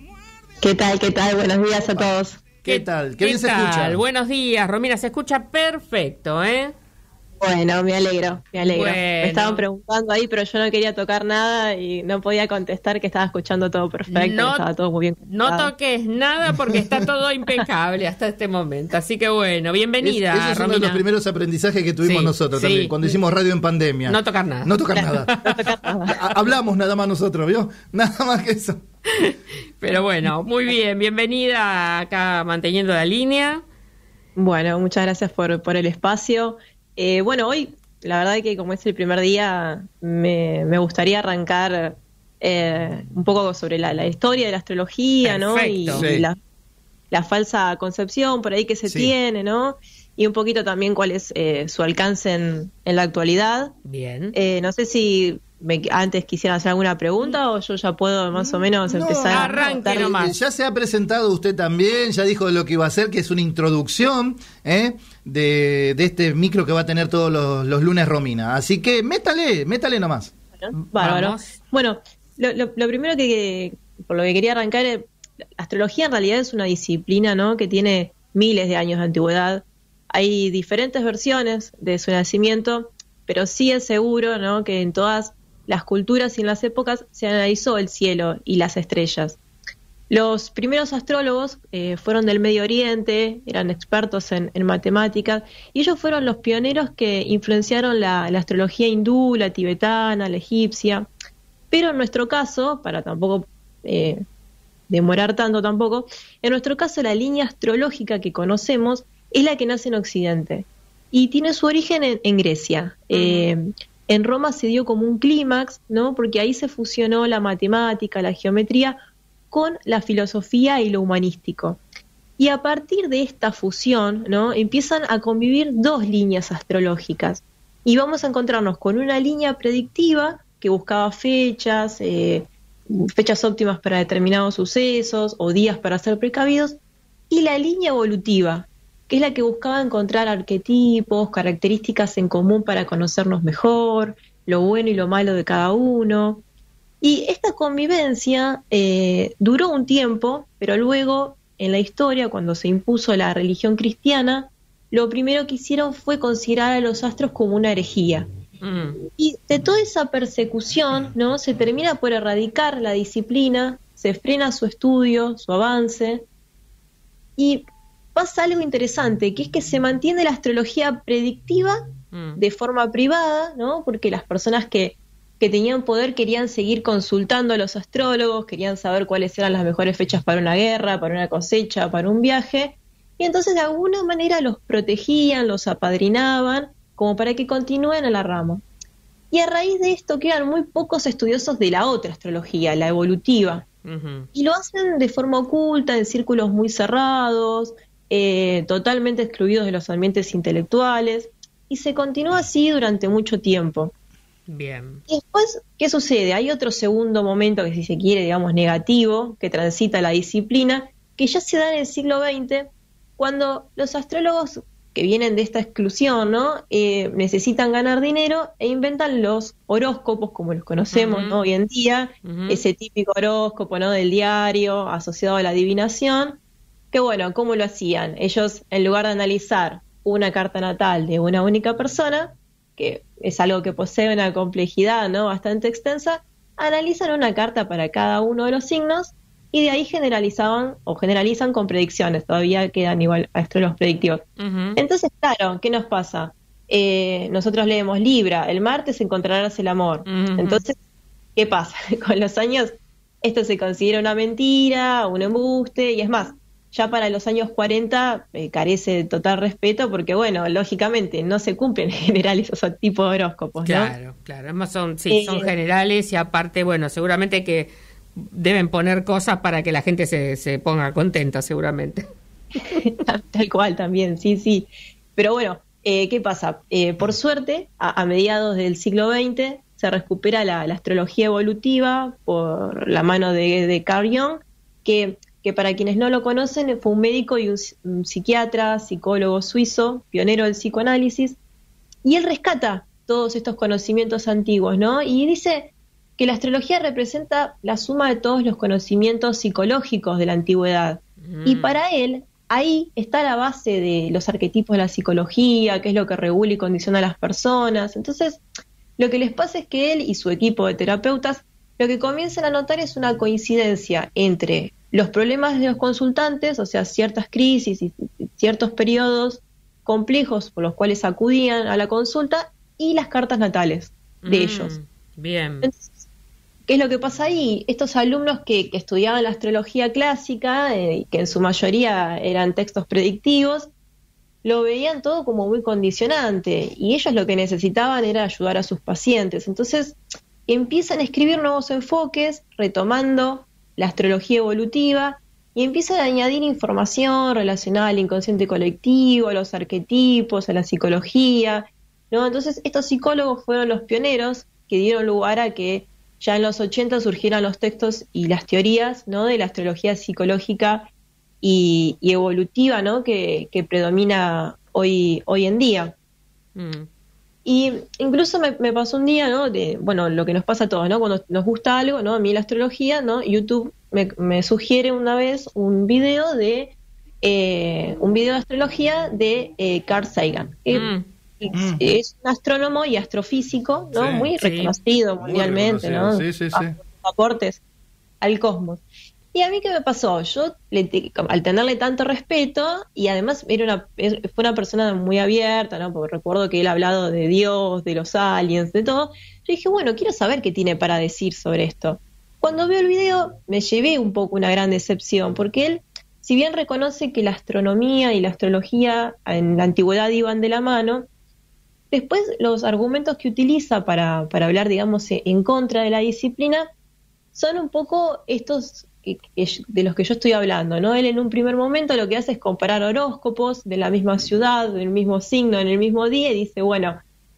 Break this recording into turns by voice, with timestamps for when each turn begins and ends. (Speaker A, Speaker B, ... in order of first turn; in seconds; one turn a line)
Speaker A: 0.6-2.4
Speaker B: 2.6-4.0
Speaker C: 2.6-6.7
Speaker A: 7.4-15.7
Speaker C: 8.6-9.6
Speaker C: 14.1-14.7
Speaker C: 15.2-21.0
Speaker B: 20.0-25.4
Speaker C: 22.0-22.9
Speaker C: 24.1-25.7
Speaker A: 24.9-26.1
Speaker B: 26.1-28.8
Speaker C: 29.1-33.6
Speaker A: 34.4-46.4
Speaker C: 45.2-46.1
Speaker B: 45.9-46.3
Speaker A: 47.1-53.7
Speaker B: 48.9-49.1
Speaker C: 53.9-54.4
Speaker A: 54.3-60.1
Speaker B: 58.3-70.3
Speaker C: 59.3-60.4
Speaker A: 70.6-75.1
Speaker C: 71.0-71.6
Speaker A: 75.6-89.4
Speaker A: 90.1-101.1
Speaker A: 101.7-104.2
Speaker A: 104.9-119.0
Speaker C: 113.1-113.5
Speaker A: 119.5-121.8
Speaker A: 122.4-136.8
Speaker A: 137.3-146.4
Speaker A: 147.0-158.3
Speaker C: 158.6-159.0
Speaker A: 159.1-166.2
Speaker A: 167.4-171.8
Speaker C: 172.1-172.4
Speaker A: 172.4-188.6
Speaker A: 189.3-193.7
Speaker C: 193.8-194.3
Speaker A: 194.3-203.9
Speaker C: 204.5-205.0
Speaker A: 205.1-226.4
Speaker C: 220.9-221.4
Speaker C: 222.2-222.6
Speaker A: 226.9-244.2
Speaker C: 244.4-244.8
Speaker A: 244.8-250.7
Speaker C: 250.0-250.6
Speaker A: 251.3-263.9
Speaker C: 263.6-272.0
Speaker A: 265.1-265.5
Speaker A: 272.7-291.4
Speaker A: 292.0-308.4
Speaker C: 301.2-301.8
Speaker A: 309.0-324.7
Speaker C: 324.2-325.7
Speaker A: 325.6-326.0
Speaker A: 326.7-333.7
Speaker A: 334.4-360.9
Speaker A: 361.4-365.9
Speaker C: 366.6-366.9
Speaker A: 367.4-380.9
Speaker C: 380.7-381.1
Speaker A: 381.4-387.6
Speaker B: 381.5-381.8
Speaker B: 383.9-384.3
Speaker C: 384.4-384.7
Speaker B: 385.2-386.7
Speaker A: 388.2-388.8
Speaker A: 389.3-411.1
Speaker A: 411.9-416.6
Speaker A: 417.3-427.0